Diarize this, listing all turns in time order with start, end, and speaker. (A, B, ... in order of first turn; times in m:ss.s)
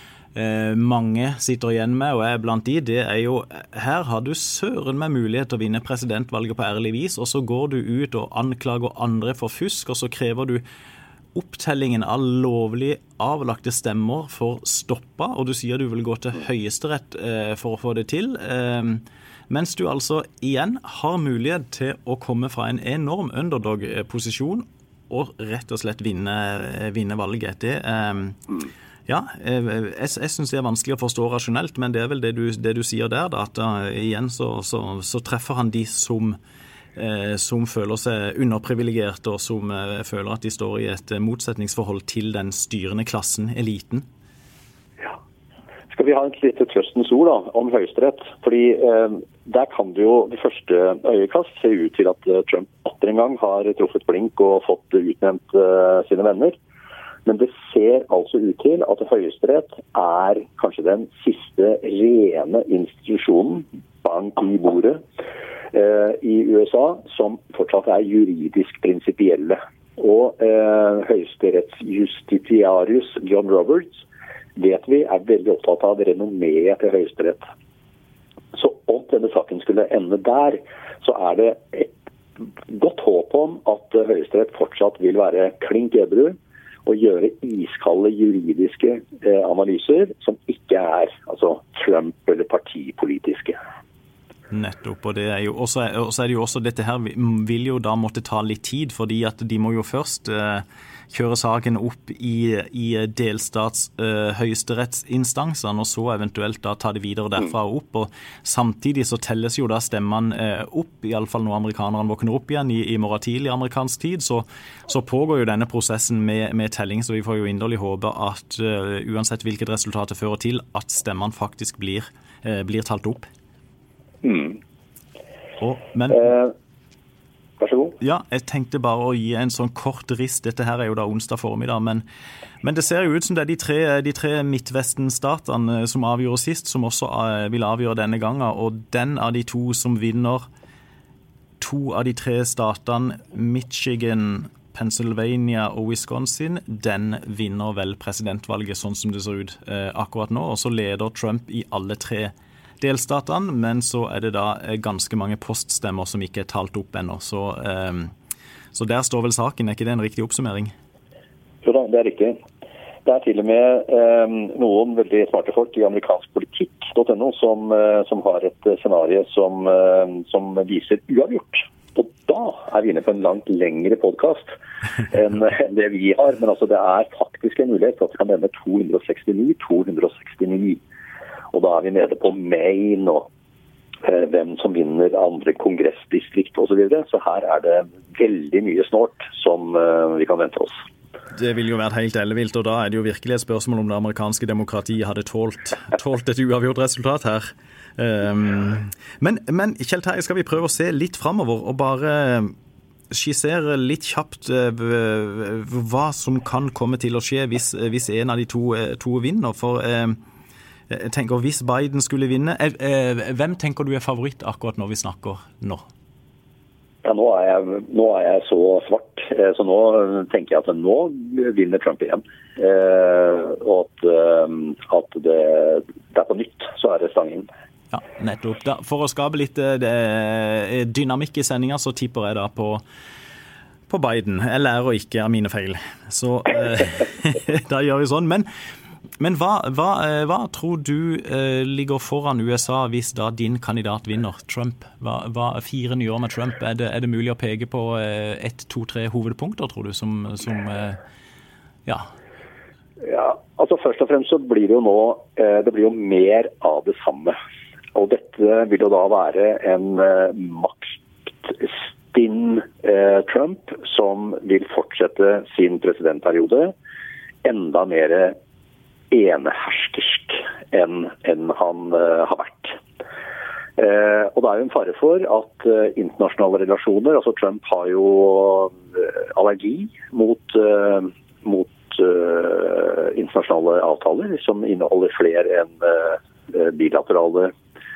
0:00.4-0:10.6 A
0:11.4-0:28.6 A
0:29.1-0:36.4 A
0:37.0-0:44.0 A
0:45.9-0:56.6 B
0:57.2-1:05.0 B
1:05.7-1:14.0 B
1:14.6-1:17.4 B
1:18.5-1:33.6 B
1:34.5-2:03.3 A
2:04.2-2:04.6 B
2:05.6-2:06.3 A
2:06.2-2:06.5 B
2:07.6-2:08.0 B
2:08.0-2:12.0 A
2:12.6-2:20.5 A
2:21.6-2:38.1 A
2:38.7-2:40.7 A
2:41.6-2:42.4 B
2:43.0-2:54.5 B
2:55.1-3:00.8 B
3:01.5-3:03.3 B
3:04.0-3:10.8 B
3:11.3-3:22.5 A
3:23.1-3:30.2 A
3:30.9-3:35.8 A
3:37.0-3:47.5 B
3:47.9-3:52.8 A
3:53.9-3:58.5 A
3:59.2-4:11.0 A
4:13.0-4:17.4 B
4:18.0-4:26.7 B
4:27.4-4:28.4 B
4:29.1-4:32.8 B
4:33.8-4:47.5 B